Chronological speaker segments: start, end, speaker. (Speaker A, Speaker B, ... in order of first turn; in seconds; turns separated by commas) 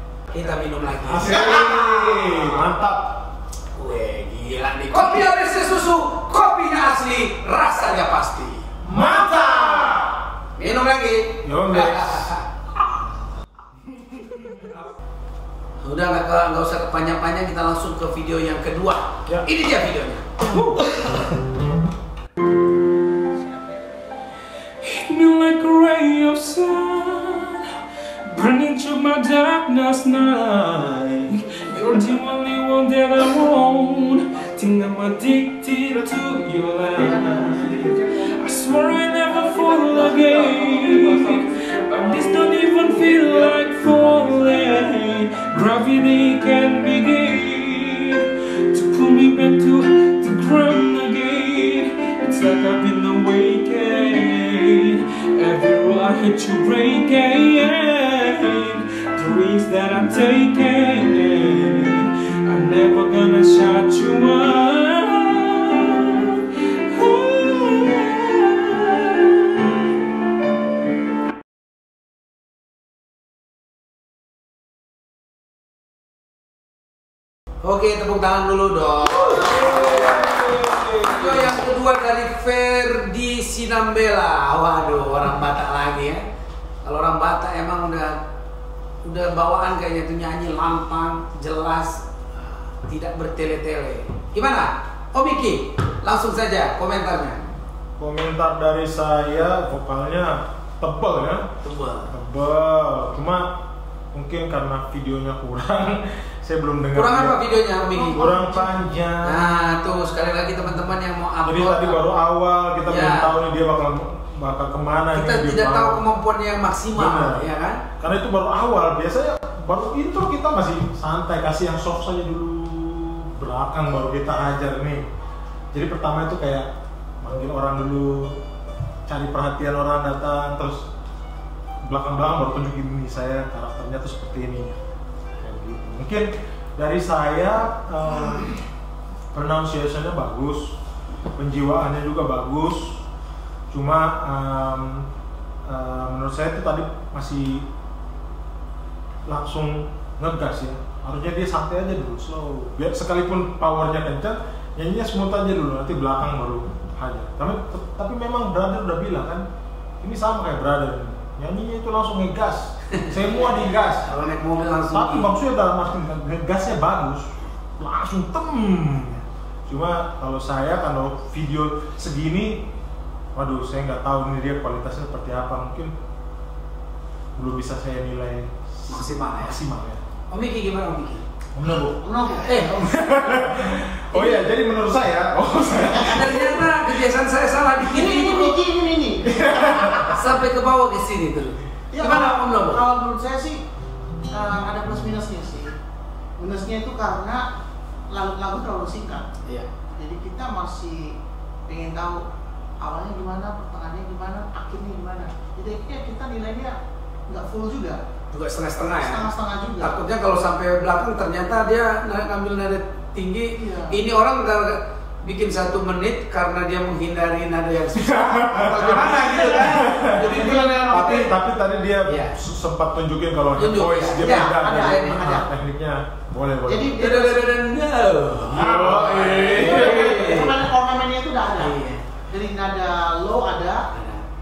Speaker A: 0.3-2.3, Speaker B: 1.0-3.2, Speaker A: 3.7-8.7, Speaker B: 8.8-10.2, Speaker C: 8.9-9.9, Speaker A: 10.6-12.5, Speaker B: 11.4-12.3, Speaker A: 15.8-20.8, Speaker D: 24.8-27.7, Speaker D: 28.2-69.6, Speaker A: 77.6-80.4, Speaker C: 79.5-79.9, Speaker D: 80.2-81.0, Speaker A: 81.0-86.2, Speaker A: 86.8-88.2, Speaker A: 89.0-97.4, Speaker B: 98.0-101.5, Speaker A: 101.6-102.1, Speaker B: 102.1-103.6, Speaker B: 104.1-107.4, Speaker A: 106.9-108.2, Speaker B: 107.9-109.5, Speaker C: 108.2-108.6, Speaker A: 109.2-112.0, Speaker B: 111.4-116.0, Speaker A: 112.8-113.3, Speaker A: 115.1-117.8, Speaker B: 116.9-117.5, Speaker B: 118.0-125.0, Speaker B: 125.7-126.7, Speaker B: 127.2-128.3, Speaker B: 129.1-130.8, Speaker B: 131.8-134.8, Speaker B: 135.4-138.6, Speaker B: 139.3-140.8, Speaker B: 141.3-143.0, Speaker B: 143.7-145.1, Speaker B: 145.7-147.7, Speaker B: 149.2-159.4, Speaker B: 160.0-164.2, Speaker A: 162.9-165.3, Speaker B: 164.7-172.7, Speaker B: 173.3-175.9, Speaker B: 177.3-180.0, Speaker A: 178.9-179.6, Speaker A: 180.3-181.2, Speaker B: 181.5-182.0, Speaker C: 182.0-182.9, Speaker A: 182.4-182.8, Speaker B: 182.7-186.9, Speaker A: 184.1-184.5, Speaker A: 186.1-188.6, Speaker C: 187.8-190.2, Speaker B: 189.3-190.2, Speaker A: 190.1-192.8, Speaker C: 191.9-193.6, Speaker C: 194.3-195.7, Speaker C: 196.4-197.4, Speaker C: 198.1-199.3, Speaker C: 199.9-201.1, Speaker C: 201.7-202.2, Speaker C: 202.8-206.7, Speaker C: 207.3-208.0, Speaker A: 208.3-209.3, Speaker C: 209.0-210.0, Speaker A: 209.8-221.3, Speaker C: 213.6-213.9, Speaker B: 217.9-227.0, Speaker C: 220.1-221.1, Speaker A: 222.1-222.3, Speaker A: 223.6-225.2, Speaker C: 224.2-225.4, Speaker C: 226.7-227.5, Speaker A: 227.0-230.6, Speaker B: 228.5-230.2, Speaker C: 228.5-231.7, Speaker A: 231.6-232.0, Speaker C: 232.3-233.8, Speaker A: 233.9-234.2